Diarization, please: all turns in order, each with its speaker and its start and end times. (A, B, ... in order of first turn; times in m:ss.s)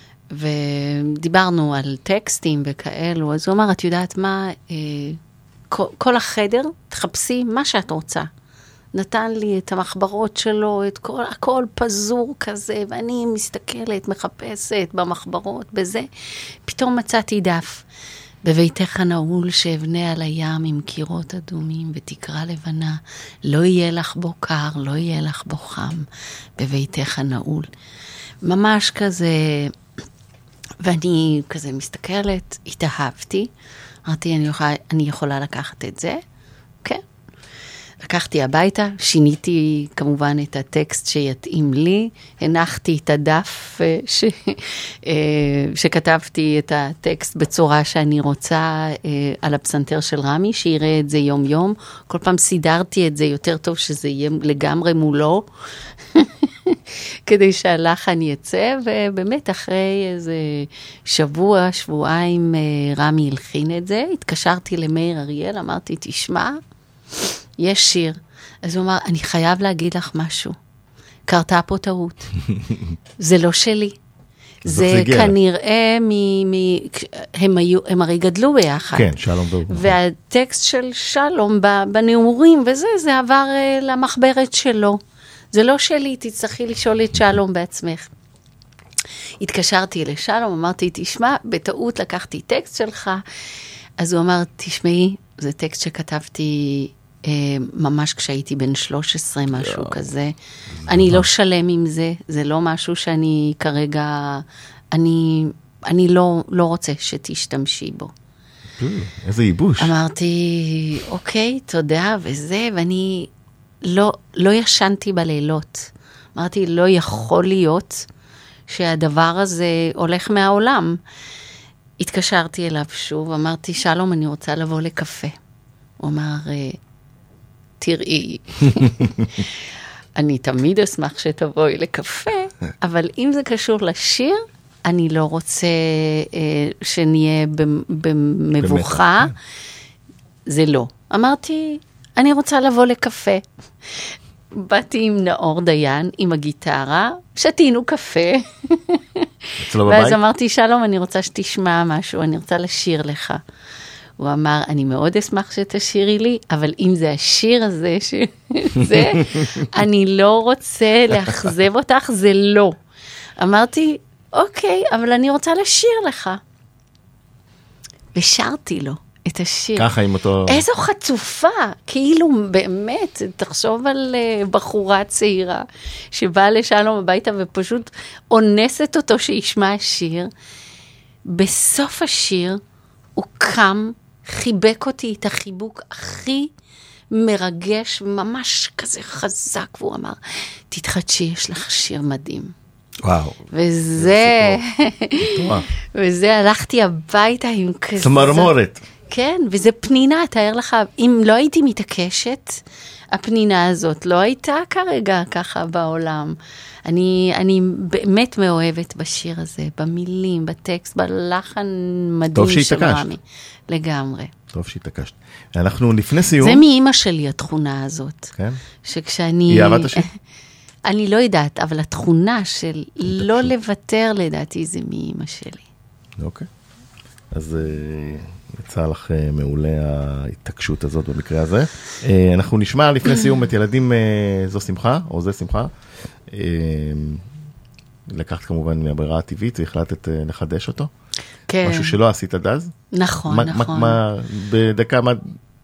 0:00.3-0:08.3 A
0:08.9-0:16.1 A
0:16.6-0:17.8 A
0:18.4-0:27.7 A
0:28.4-0:29.7 A
0:30.8-0:33.5 A
0:34.0-0:36.2 A
0:38.0-0:55.5 A
0:56.1-1:06.6 A
1:07.6-1:10.6 A
1:11.3-1:12.3 A
1:13.2-1:14.0 A
1:14.6-1:19.1 A
1:14.6-1:15.4 B
1:18.9-1:20.0 B
1:19.7-1:25.0 A
1:25.5-1:28.1 A
1:29.4-1:33.2 A
1:34.0-1:48.1 A
1:39.6-1:40.1 B
1:40.9-1:41.2 B
1:48.8-1:49.9 B
1:49.8-1:53.3 A
1:53.8-1:58.1 A
1:58.7-2:01.0 A
2:02.0-2:05.3 A
2:06.0-2:06.8 A
2:07.8-2:09.5 A
2:10.2-2:19.3 A
2:18.6-2:19.3 B
2:20.5-2:23.4 A
2:24.0-2:29.2 A
2:29.6-2:30.2 B
2:29.8-2:33.4 A
2:34.2-2:42.8 A
2:39.0-2:39.5 B
2:43.4-2:46.4 A
2:48.1-2:49.9 A
2:49.8-2:50.6 B
2:50.4-3:00.3 A
3:01.3-3:02.6 A
3:03.2-3:06.5 A
3:07.1-3:12.5 A
3:13.0-3:14.6 B
3:13.5-3:18.5 A
3:15.2-3:15.7 B
3:18.0-3:18.8 B
3:19.1-3:34.3 A
3:32.3-3:33.1 B
3:34.5-3:36.6 B
3:36.4-3:38.3 A
3:38.8-3:40.1 A
3:39.5-3:40.1 B
3:40.9-3:45.6 A
3:43.0-3:43.5 B
3:46.2-3:46.5 B
3:47.3-3:55.7 B
3:56.3-3:57.2 B
3:58.1-4:00.9 B
4:01.5-4:02.0 A
4:01.6-4:02.7 B
4:02.9-4:04.0 A
4:03.3-4:05.2 B